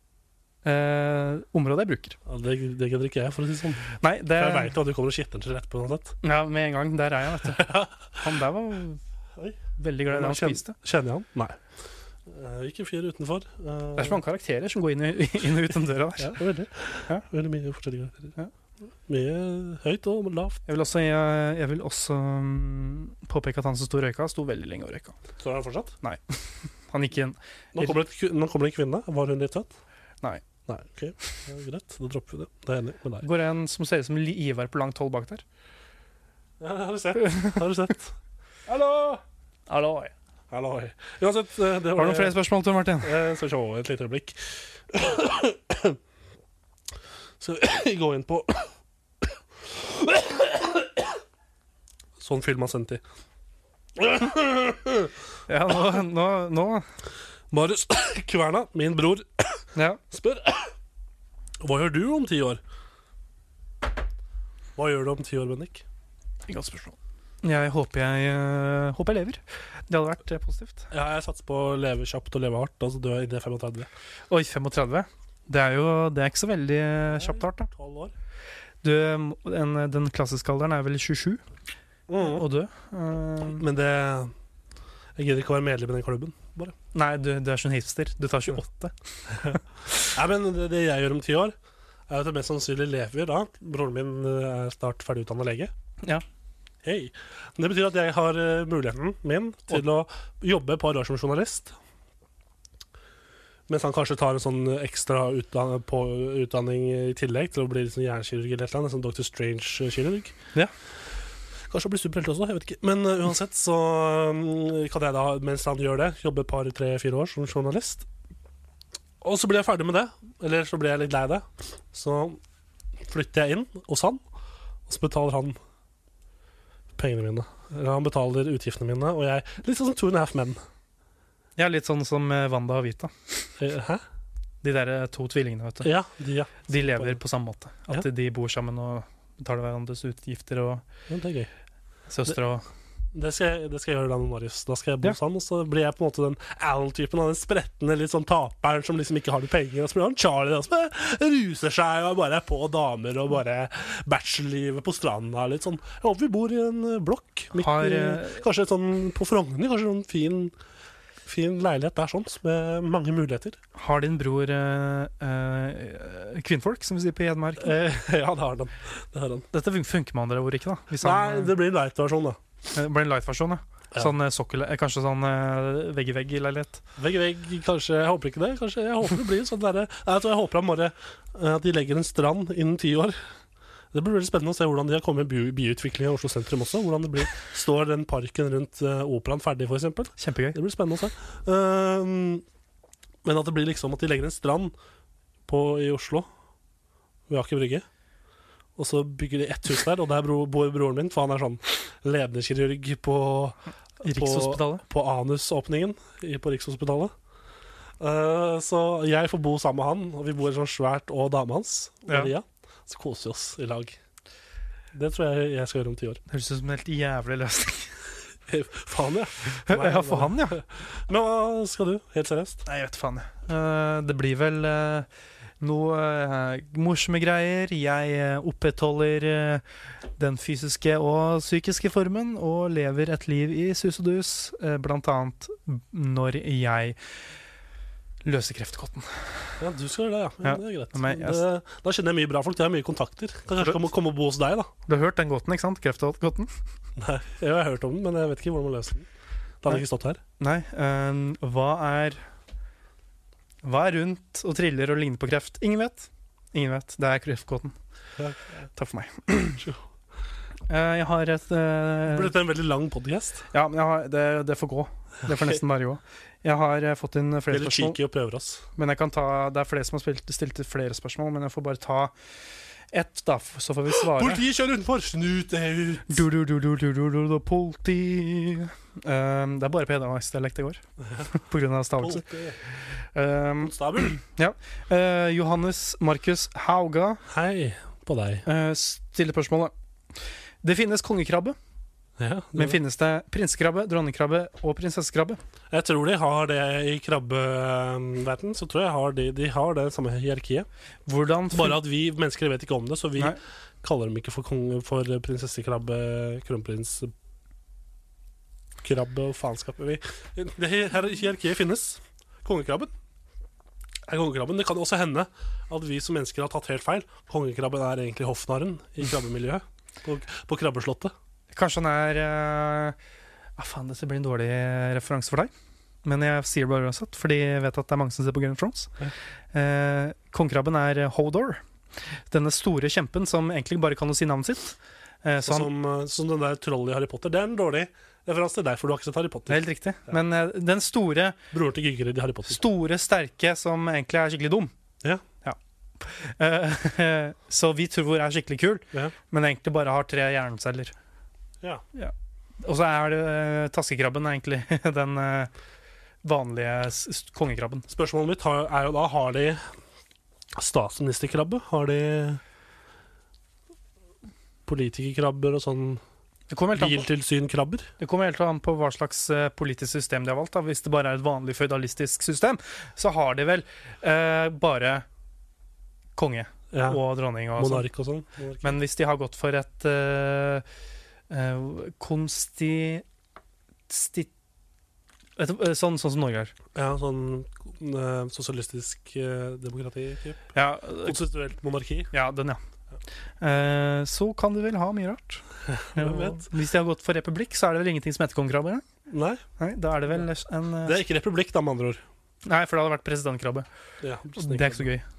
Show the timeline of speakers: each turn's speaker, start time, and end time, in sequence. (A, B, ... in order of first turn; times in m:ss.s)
0:00.6-0:02.2 A
0:02.2-0:06.2 B
0:04.0-0:04.7 A
0:06.2-0:09.0 A
0:07.4-0:08.2 B
0:09.8-0:10.7 A
0:10.1-0:11.6 B
0:12.2-0:14.2 B
0:14.0-0:16.4 A
0:16.2-0:18.3 B
0:19.0-0:20.6 B
0:20.7-0:25.2 A
0:25.4-0:25.9 B
0:26.0-0:27.9 A
0:27.7-0:29.7 B
0:30.7-0:33.2 B
0:33.2-0:35.4 A
0:36.6-0:39.2 B
0:37.2-0:37.6 A
0:39.7-0:40.1 A
0:40.5-0:42.4 B
0:42.0-0:43.2 A
0:43.0-0:46.0 B
0:47.4-0:48.7 B
0:49.2-0:51.2 B
0:52.2-0:53.0 B
0:54.0-0:55.1 B
0:55.5-0:56.8 A
0:57.5-1:00.7 B
0:59.7-1:00.0 A
1:01.6-1:02.6 B
1:04.8-1:05.8 B
1:06.5-1:10.9 A
1:10.9-1:13.9 B
1:14.3-1:17.7 A
1:17.1-1:18.1 B
1:18.8-1:21.4 A
1:22.1-1:22.4 B
1:22.2-1:23.6 A
1:23.5-1:24.3 B
1:25.2-1:26.7 B
1:26.9-1:29.6 A
1:30.1-1:31.5 B
1:32.1-1:35.7 B
1:36.8-1:41.8 B
1:43.7-1:50.3 B
1:51.7-1:58.0 B
1:59.2-2:02.4 B
2:03.0-2:04.2 B
2:04.9-2:05.6 B
2:07.0-2:10.6 B
2:11.6-2:13.4 A
2:13.6-2:14.0 B
2:14.6-2:15.9 A
2:15.8-2:17.2 B
2:16.7-2:20.8 A
2:21.1-2:21.5 B
2:22.1-2:22.6 A
2:23.1-2:40.5 B
2:37.5-2:38.4 A
2:41.2-2:43.6 B
2:43.8-2:47.7 A
2:47.6-2:49.4 B
2:49.5-2:51.5 A
2:51.0-2:52.4 B
2:52.7-2:56.8 A
2:57.0-3:03.2 B
3:03.9-3:12.4 B
3:10.2-3:10.6 A
3:13.2-3:14.7 B
3:15.4-3:16.3 B
3:17.3-3:17.8 B
3:18.8-3:27.1 B
3:24.0-3:24.8 A
3:28.0-3:34.0 B
3:32.1-3:32.3 A
3:34.9-3:36.2 B
3:36.3-3:37.9 A
3:38.5-3:42.6 B
3:39.7-3:40.6 A
3:42.6-3:45.1 A
3:45.6-3:49.6 A
3:50.2-3:57.0 A
3:58.2-3:59.2 A
3:59.6-4:04.7 B
4:00.4-4:01.4 A
4:04.9-4:06.5 A
4:07.0-4:09.1 B
4:09.6-4:10.2 B
4:10.4-4:12.2 A
4:13.6-4:17.7 A
4:18.7-4:19.6 A
4:20.7-4:22.3 A
4:22.1-4:23.4 B
4:23.5-4:28.0 A
4:27.5-4:28.6 B
4:28.8-4:32.1 A
4:32.9-4:34.4 A
4:34.0-4:36.2 B
4:36.1-4:42.2 A
4:42.0-4:42.6 B
4:43.1-4:47.2 A
4:43.6-4:44.2 B
4:47.3-4:48.4 B
4:48.4-4:49.7 A
4:50.6-4:51.6 A
4:52.2-4:52.8 B
4:52.6-4:55.4 A
4:55.7-5:00.7 B
5:01.0-5:01.8 A
5:01.5-5:07.1 B
5:08.8-5:12.9 B
5:14.0-5:21.1 B
5:21.5-5:23.0 A
5:23.6-5:25.5 A
5:26.0-5:28.9 A
5:29.5-5:31.6 A
5:32.3-5:35.7 A
5:35.4-5:39.6 B
5:39.5-5:41.4 A
5:41.5-5:42.6 B
5:42.5-5:44.7 A
5:45.4-5:50.9 A
5:51.9-5:55.5 A
5:56.2-5:57.9 A
5:57.9-5:59.6 B
6:00.5-6:02.4 B
6:04.6-6:06.0 B
6:06.5-6:07.1 A
6:06.7-6:07.9 B
6:08.0-6:15.0 A
6:16.2-6:17.9 A
6:16.7-6:17.0 B
6:17.6-6:18.8 B
6:18.6-6:20.6 A
6:21.3-6:23.0 A
6:23.9-6:24.3 A
6:25.4-6:26.5 A
6:26.7-6:30.5 B
6:30.5-6:31.2 A
6:31.0-6:32.1 B
6:32.1-6:32.6 A
6:33.4-6:38.8 A
6:35.7-6:36.5 B
6:39.1-6:39.4 B
6:39.6-6:41.0 A
6:40.8-6:42.0 B
6:42.4-6:43.7 A
6:44.0-6:44.9 B
6:44.3-6:45.0 A